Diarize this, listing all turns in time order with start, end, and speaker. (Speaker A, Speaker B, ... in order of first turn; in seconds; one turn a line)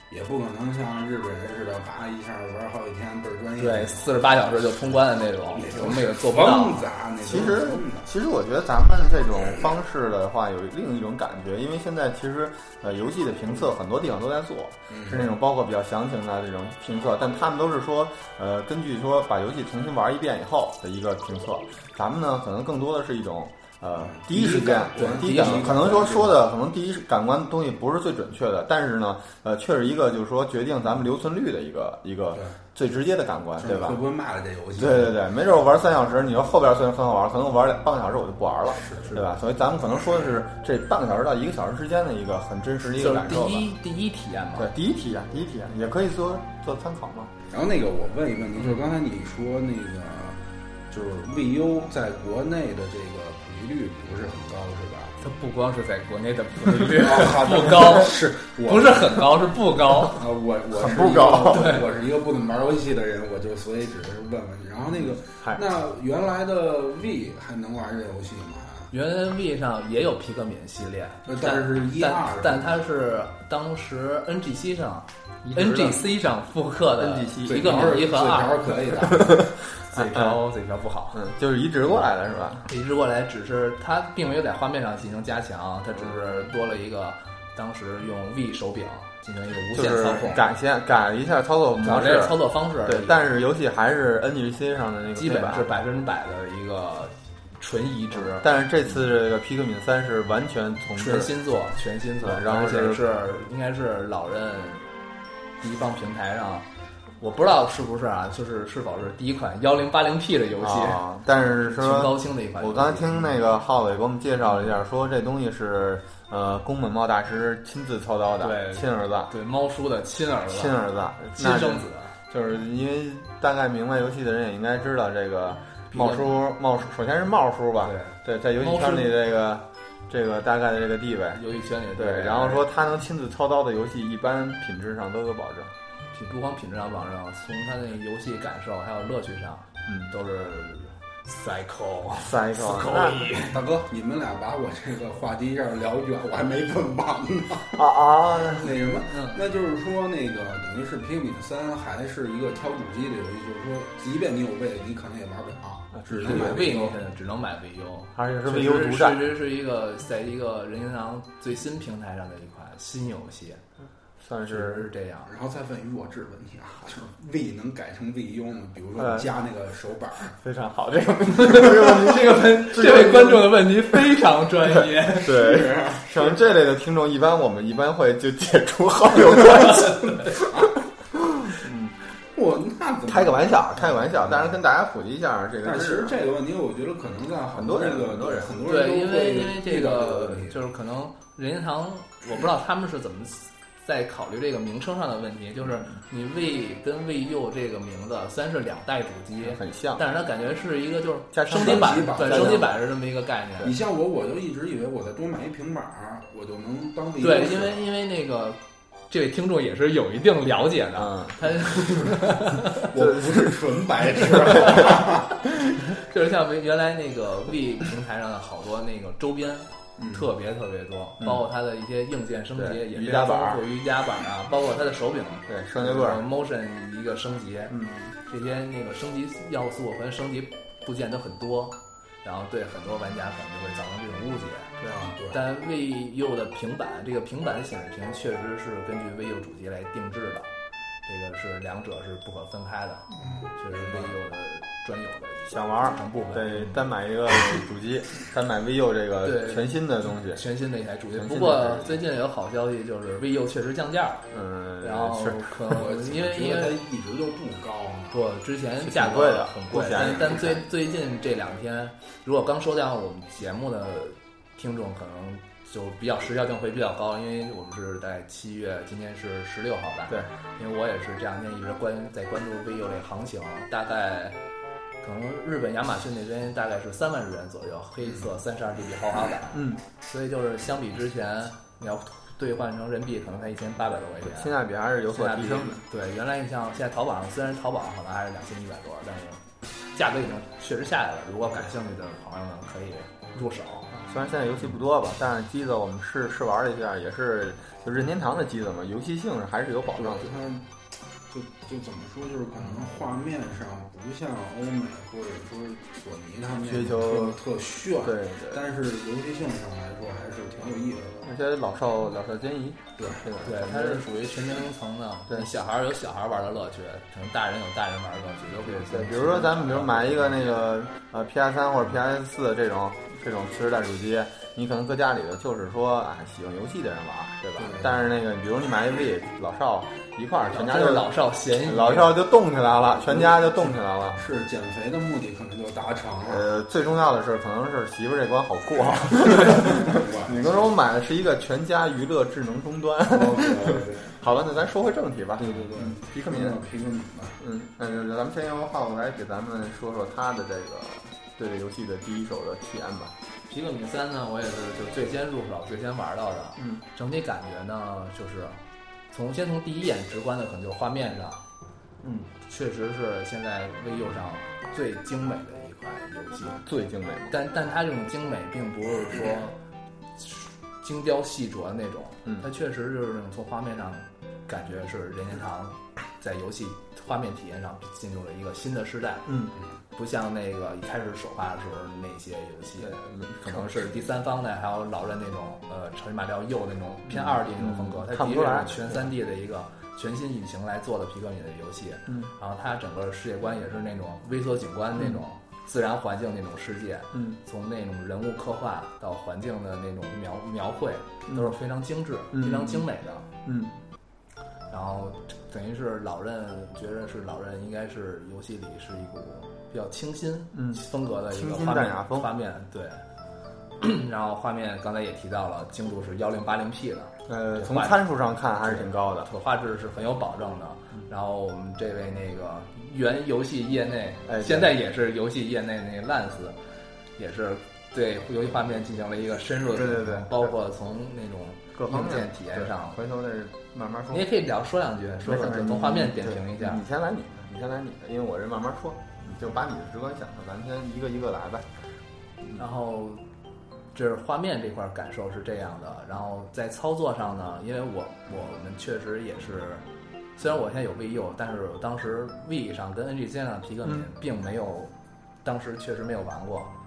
Speaker A: 0.1-4.1
Speaker B: 3.6-6.9
Speaker A: 5.5-8.1
Speaker C: 7.2-34.0
Speaker A: 14.9-15.3
Speaker A: 24.0-26.3
Speaker B: 24.4-26.3
Speaker A: 33.6-35.2
Speaker C: 34.8-43.7
Speaker A: 38.8-39.2
Speaker B: 42.9-44.7
Speaker C: 44.6-47.3
Speaker A: 47.5-55.2
Speaker B: 55.2-60.2
Speaker A: 56.9-59.3
Speaker A: 60.0-68.9
Speaker C: 60.8-61.7
Speaker B: 61.5-61.9
Speaker B: 68.9-78.9
Speaker A: 71.3-72.7
Speaker C: 75.5-76.0
Speaker C: 77.0-77.9
Speaker A: 77.5-79.4
Speaker C: 79.1-80.4
Speaker B: 79.9-81.2
Speaker C: 81.1-82.7
Speaker B: 82.7-90.4
Speaker C: 89.7-95.7
Speaker B: 91.8-93.2
Speaker B: 95.2-98.5
Speaker C: 98.1-101.3
Speaker B: 101.0-104.8
Speaker C: 102.2-103.0
Speaker B: 105.6-106.7
Speaker B: 107.2-113.3
Speaker C: 110.6-119.3
Speaker B: 118.4-120.8
Speaker C: 120.5-131.4
Speaker B: 121.4-122.2
Speaker B: 125.9-126.4
Speaker B: 127.8-129.1
Speaker B: 131.3-132.7
Speaker C: 132.0-135.7
Speaker B: 136.1-143.6
Speaker C: 142.2-143.3
Speaker A: 143.5-157.0
Speaker C: 147.7-148.8
Speaker B: 149.1-149.4
Speaker C: 155.9-156.7
Speaker B: 156.2-163.6
Speaker C: 158.2-159.3
Speaker C: 164.2-164.9
Speaker B: 164.5-165.3
Speaker A: 165.3-170.4
Speaker C: 169.0-169.3
Speaker C: 170.3-173.6
Speaker B: 171.3-175.4
Speaker C: 174.8-182.0
Speaker A: 175.2-176.4
Speaker A: 182.3-184.6
Speaker C: 183.1-186.2
Speaker A: 185.6-190.6
Speaker C: 187.5-188.6
Speaker B: 188.7-203.8
Speaker C: 199.4-200.0
Speaker C: 201.3-202.7
Speaker A: 201.6-202.8
Speaker A: 203.6-207.9
Speaker B: 207.2-212.8
Speaker C: 211.0-211.4
Speaker A: 212.6-215.3
Speaker C: 213.0-213.5
Speaker B: 214.5-214.9
Speaker C: 214.6-214.9
Speaker B: 215.8-234.8
Speaker A: 220.0-220.3
Speaker C: 222.6-223.6
Speaker C: 225.5-226.2
Speaker C: 227.7-228.1
Speaker A: 234.9-235.4
Speaker B: 235.3-240.5
Speaker B: 241.1-246.8
Speaker A: 243.2-244.2
Speaker C: 245.5-250.4
Speaker B: 249.2-254.3
Speaker C: 251.1-252.0
Speaker C: 254.3-255.6
Speaker B: 254.8-256.8
Speaker A: 255.7-258.2
Speaker B: 258.1-274.4
Speaker C: 258.8-260.6
Speaker B: 275.0-284.6
Speaker C: 279.5-279.8
Speaker C: 284.2-285.8
Speaker B: 285.1-289.4
Speaker B: 289.9-294.0
Speaker C: 293.9-300.5
Speaker A: 300.0-300.7
Speaker A: 301.3-311.2
Speaker C: 306.6-307.4
Speaker C: 308.0-308.6
Speaker C: 311.2-314.1
Speaker A: 313.0-313.4
Speaker B: 313.4-320.6
Speaker C: 318.7-331.1
Speaker A: 327.6-328.1
Speaker B: 330.5-332.2
Speaker C: 331.6-334.2
Speaker A: 333.1-336.5
Speaker C: 336.3-346.6
Speaker A: 339.3-340.6
Speaker A: 343.1-344.2
Speaker A: 345.4-347.4
Speaker C: 347.4-353.2
Speaker B: 353.5-358.6
Speaker B: 359.1-361.5
Speaker C: 362.0-362.3
Speaker B: 362.4-366.6
Speaker C: 366.6-367.4
Speaker B: 367.3-369.6
Speaker B: 370.2-379.4
Speaker C: 379.3-379.5
Speaker B: 379.9-403.3
Speaker C: 382.8-383.9
Speaker C: 387.1-389.1
Speaker C: 401.3-401.6
Speaker C: 402.3-402.9
Speaker C: 403.4-403.7
Speaker B: 404.7-413.0
Speaker C: 410.5-412.3
Speaker B: 413.8-418.0
Speaker C: 417.3-419.3
Speaker B: 418.6-426.6
Speaker C: 424.3-424.8
Speaker B: 427.2-433.0
Speaker C: 429.7-430.5
Speaker C: 431.8-434.3
Speaker B: 434.1-436.8
Speaker C: 435.2-441.7
Speaker B: 442.6-443.2
Speaker B: 443.9-449.9
Speaker B: 450.4-454.9
Speaker B: 455.4-456.7